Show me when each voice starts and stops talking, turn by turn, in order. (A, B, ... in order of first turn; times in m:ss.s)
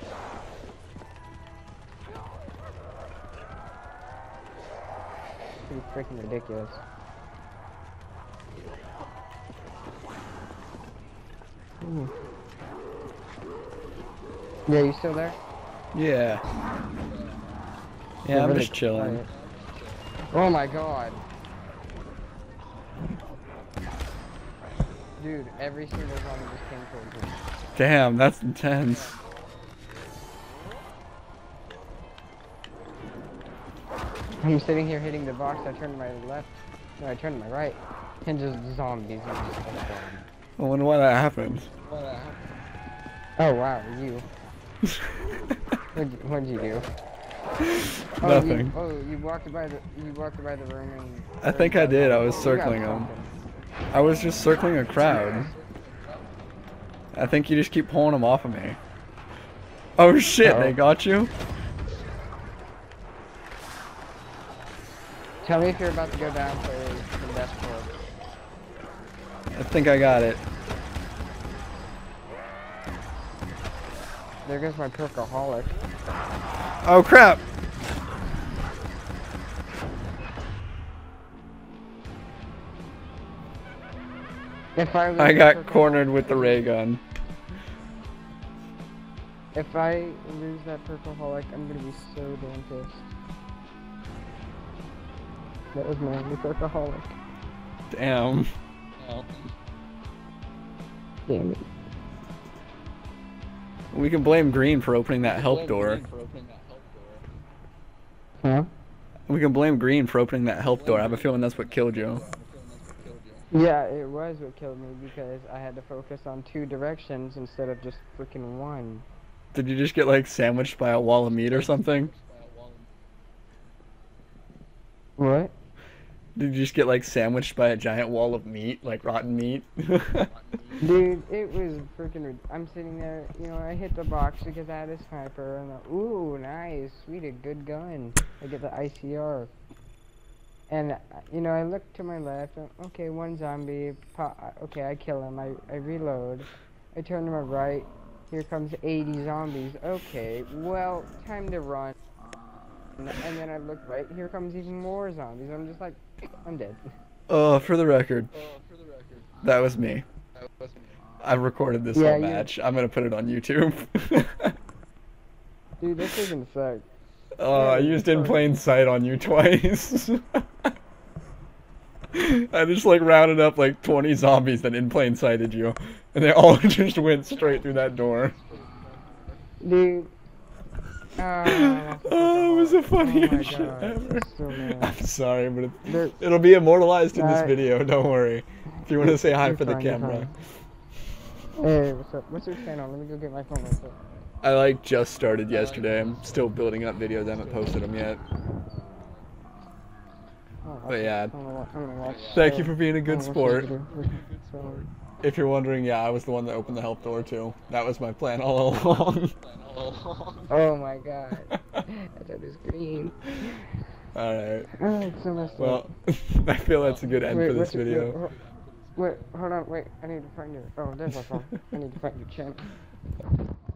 0:05.7-0:06.8 A
0:11.8-0:12.1 A
0:14.7-0:15.4 A
0:15.9-0:16.4 B
0:17.0-0:17.4 C
0:18.2-0:19.2 B
0:18.3-0:19.3 A
0:19.2-0:20.4 C
0:20.3-0:21.2 A
0:25.2-0:27.4 A
0:27.7-0:29.1 B
0:28.8-0:29.6 C
0:34.4-0:40.3 A
0:40.6-0:41.7 B
0:41.8-0:42.5 C
0:43.4-0:44.2 A
0:44.8-0:45.1 B
0:45.9-0:46.9 A
0:47.6-0:48.7 B
0:48.2-0:53.3 A
0:51.4-0:53.1 B
0:53.9-0:55.5 B
0:55.0-0:56.5 C
0:57.1-0:58.8 B
1:00.0-1:01.3 B
1:00.4-1:00.8 A
1:05.4-1:07.9 A
1:09.5-1:10.4 B
1:14.4-1:15.8 A
1:16.8-1:17.4 B
1:24.8-1:26.7 A
1:25.2-1:27.0 B
1:29.5-1:33.1 A
1:35.7-1:37.2 A
1:37.9-1:38.5 B
1:39.0-1:39.5 C
1:41.3-1:41.6 A
1:43.9-1:46.0 B
1:45.2-1:47.3 C
1:48.4-1:48.7 A
1:49.3-1:52.2 B
1:50.6-1:53.6 C
1:53.5-1:59.0 A
1:59.5-2:02.1 B
2:01.2-2:02.9 C
2:05.2-2:05.5 A
2:06.4-2:10.3 B
2:10.1-2:11.0 C
2:10.8-2:19.5 A
2:20.7-2:31.9 A
2:33.0-2:36.9 A
2:37.3-2:38.3 B
2:38.3-2:39.5 C
2:39.4-2:40.0 B
2:40.3-2:41.1 C
2:41.2-2:44.6 B
2:41.9-2:42.5 A
2:45.8-2:46.8 A
2:47.4-2:50.5 B
2:47.5-2:48.4 A
2:52.1-2:58.3 B
2:56.8-2:59.5 C
2:59.6-3:00.1 A
3:01.2-3:04.9 A
3:01.4-3:10.3 B
3:05.8-3:06.2 A
3:07.1-3:07.6 A
3:08.8-3:10.3 A
3:11.6-3:14.0 A
3:14.4-3:18.2 B
3:15.5-3:16.9 C
3:17.2-3:17.8 A
3:18.8-3:19.3 C
3:20.6-3:24.8 A
3:20.9-3:21.3 B
3:22.0-3:22.6 C
3:22.3-3:23.7 B
3:23.6-3:24.9 C
3:25.2-3:29.3 B
3:26.6-3:28.0 C
3:29.2-3:30.6 C
3:30.5-3:33.6 A
3:34.1-3:34.7 B
3:34.8-3:35.9 A
3:35.3-3:35.8 C
3:35.6-3:38.2 B
3:36.7-3:37.2 C
3:37.2-3:38.3 A
3:38.2-3:39.4 C
3:39.0-3:42.6 A